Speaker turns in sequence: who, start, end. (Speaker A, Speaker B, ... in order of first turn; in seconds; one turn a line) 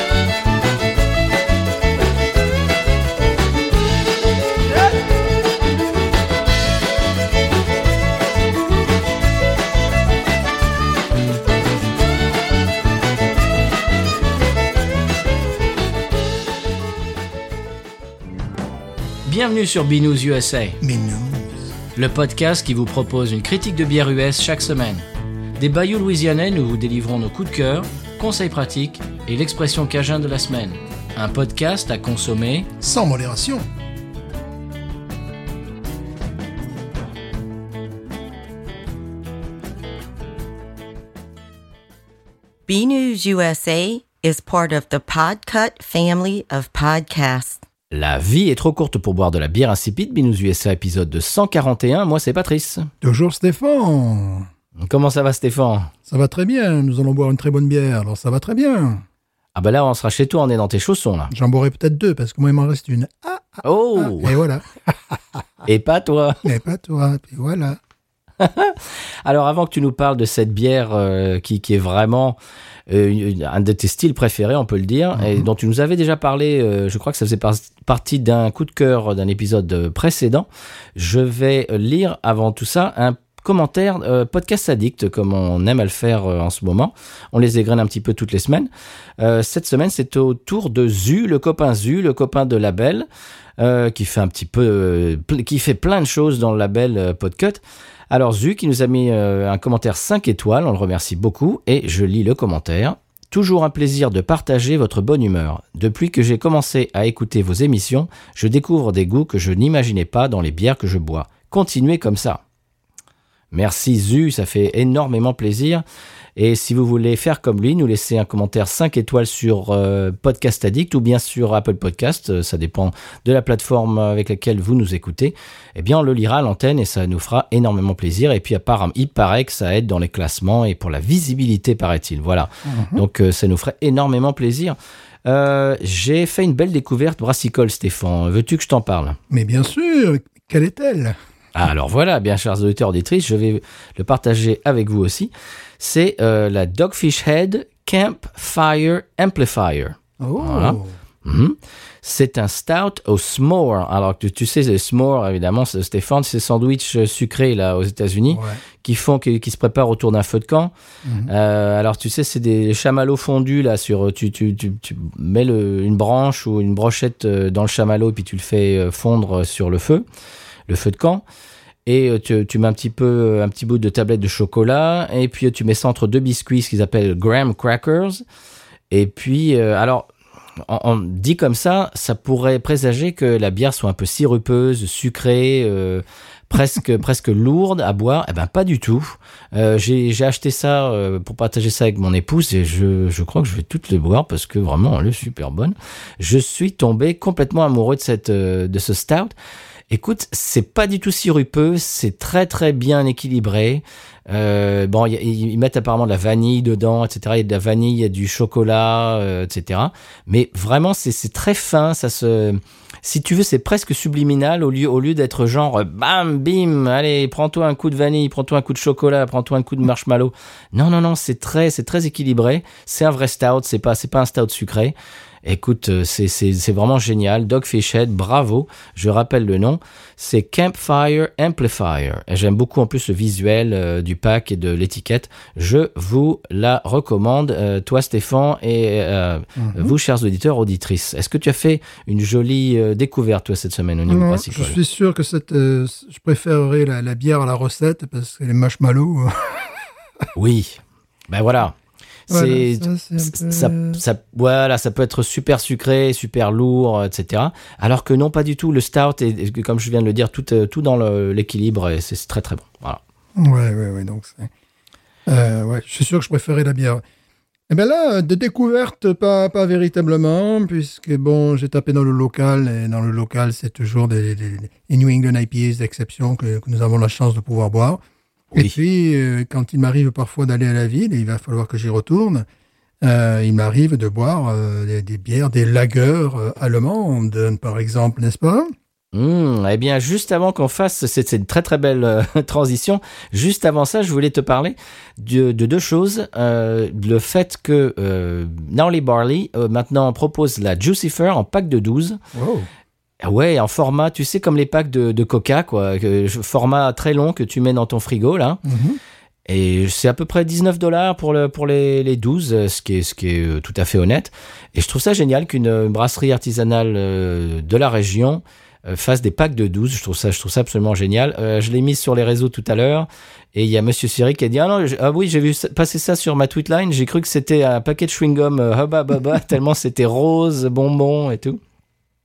Speaker A: 19.2-20.8
Speaker B: 20.8-21.8
Speaker A: 21.9-25.1
Speaker A: 25.6-32.7
Speaker B: 32.8-33.7
Speaker C: 42.7-47.6
Speaker A: 47.9-52.9
Speaker B: 53.0-54.5
Speaker A: 54.8-55.9
Speaker B: 56.0-59.0
Speaker A: 59.5-61.3
Speaker B: 61.3-65.4
Speaker A: 63.6-64.4
Speaker A: 65.6-66.4
Speaker B: 66.4-67.8
Speaker A: 68.4-72.4
Speaker A: 72.9-93.1
Speaker B: 75.2-75.5
Speaker A: 93.6-112.4
Speaker A: 113.5-115.8
Speaker A: 116.3-139.2
Speaker B: 132.6-133.0
Speaker B: 139.3-141.2
Speaker A: 141.5-160.7
Speaker B: 150.2-151.0
Speaker B: 158.3-158.6
Speaker B: 161.0-161.3
Speaker A: 161.2-170.0
Speaker A: 170.7-171.2
Speaker A: 171.8-178.2
Speaker A: 178.9-180.1
Speaker A: 180.6-199.3
Speaker A: 199.9-244.8
Speaker B: 239.6-239.9
Speaker B: 244.1-249.9
Speaker A: 250.3-251.8
Speaker A: 252.3-263.0
Speaker B: 252.3-254.0
Speaker B: 263.4-264.5
Speaker B: 265.2-267.0
Speaker B: 267.7-278.0
Speaker B: 278.5-282.4
Speaker B: 283.0-288.7
Speaker A: 289.1-302.2
Speaker B: 302.3-302.7
Speaker A: 303.2-308.6
Speaker B: 308.6-309.0
Speaker A: 309.5-331.6